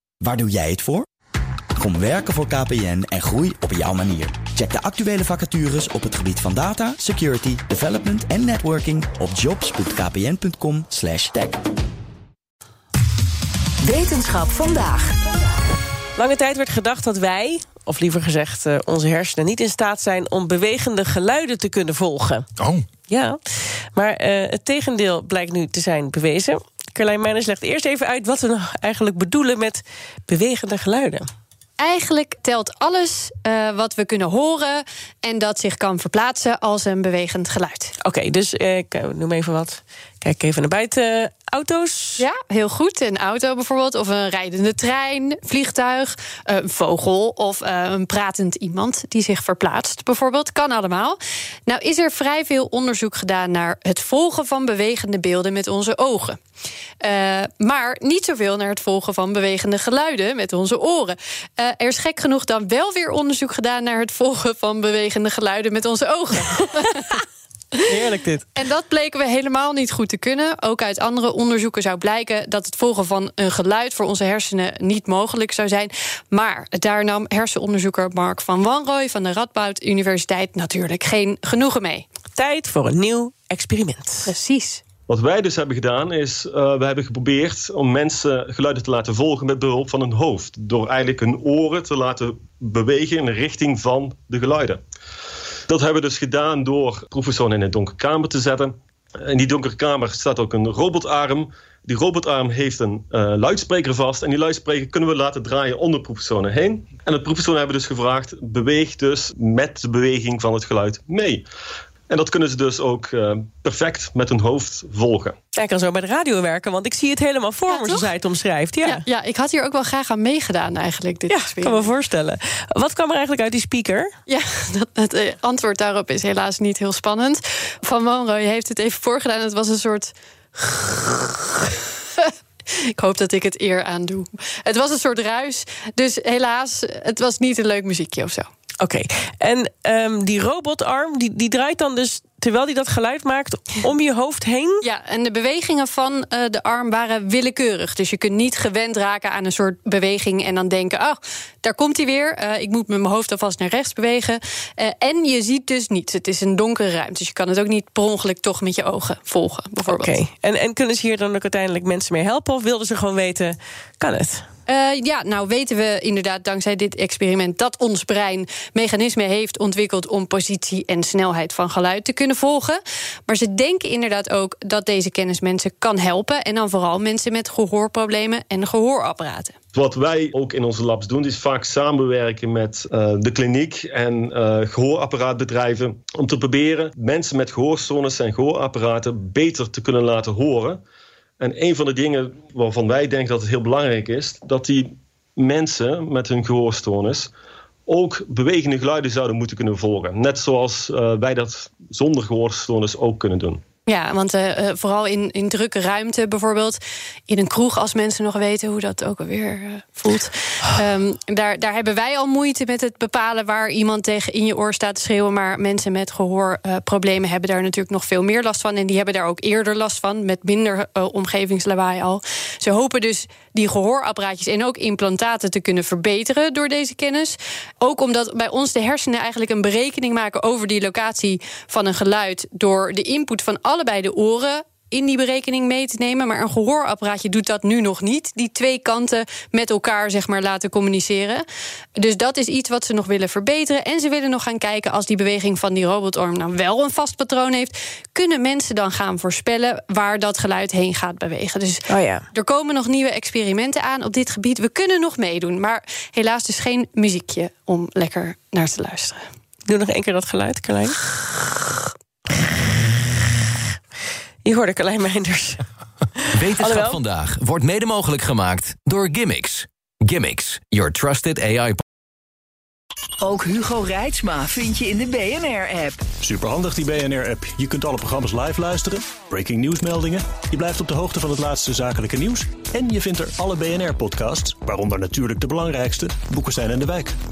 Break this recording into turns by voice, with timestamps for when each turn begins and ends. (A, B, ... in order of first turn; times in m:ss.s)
0:00.2-0:01.0 A
0:01.8-0:11.6 A
0:13.8-0:15.1 B
0:16.2-0:22.5 C
0:23.1-0:23.4 C
0:23.9-0:31.3 C
0:31.8-0:37.9 D
0:38.0-0:42.2 C
0:42.2-0:56.4 D
0:57.0-1:07.2 D
1:07.8-1:08.4 C
1:08.5-1:22.1 D
1:22.4-1:24.3 C
1:24.3-1:24.8 D
1:25.1-1:34.8 E
1:35.7-1:51.4 E
1:52.1-1:55.4 E
1:55.5-1:59.0 C
1:57.7-1:58.1 D
1:58.8-2:01.9 D
2:01.3-2:04.1 C
2:04.3-2:12.2 D
2:12.9-2:18.5 D
2:18.8-2:24.8 C
2:24.8-2:40.1 D
2:39.8-2:44.4 C
2:44.7-2:59.5 D
2:59.7-3:10.8 E
3:11.4-3:17.3 E
3:17.9-3:23.6 E
3:23.8-4:01.4 D
4:02.0-4:19.3 D
4:11.9-4:12.2 C
4:19.7-4:21.0 C
4:24.4-4:25.6 C
4:26.3-4:31.8 F
4:26.4-4:27.0 C
4:33.2-4:36.0 B
4:36.2-4:47.1 G